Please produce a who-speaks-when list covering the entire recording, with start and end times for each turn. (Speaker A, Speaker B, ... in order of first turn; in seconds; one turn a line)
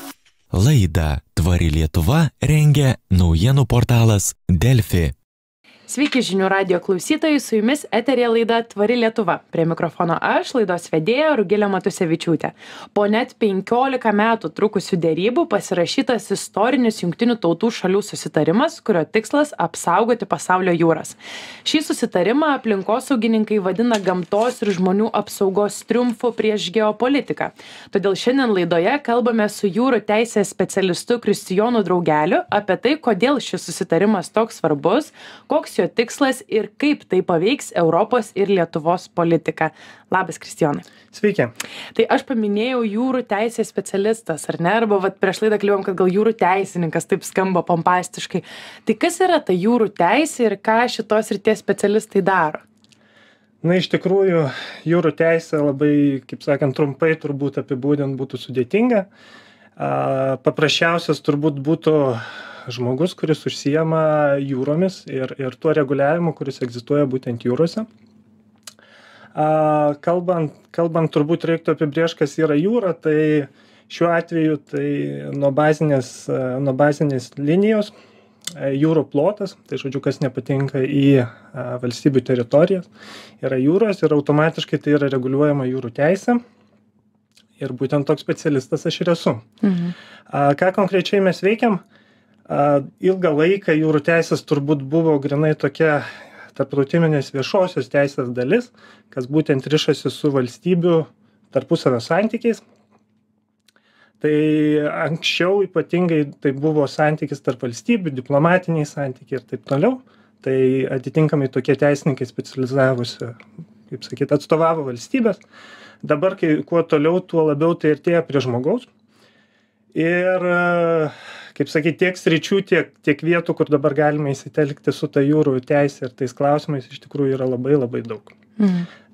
Speaker A: 0.5-5.1
Speaker B: 5.9-40.8
Speaker C: 41.1-41.5
Speaker B: 41.9-52.6
Speaker C: 53.6-59.1
Speaker C: 59.8-67.9
Speaker C: 69.3-77.9
Speaker C: 78.5-82.9
Speaker C: 83.4-86.4
Speaker C: 87.6-89.4
Speaker B: 89.6-89.9
Speaker C: 90.3-91.8
Speaker C: 92.5-102.6
Speaker C: 104.2-113.4
Speaker C: 113.9-115.4
Speaker C: 116.0-118.9
Speaker C: 119.9-128.3
Speaker B: 128.6-128.9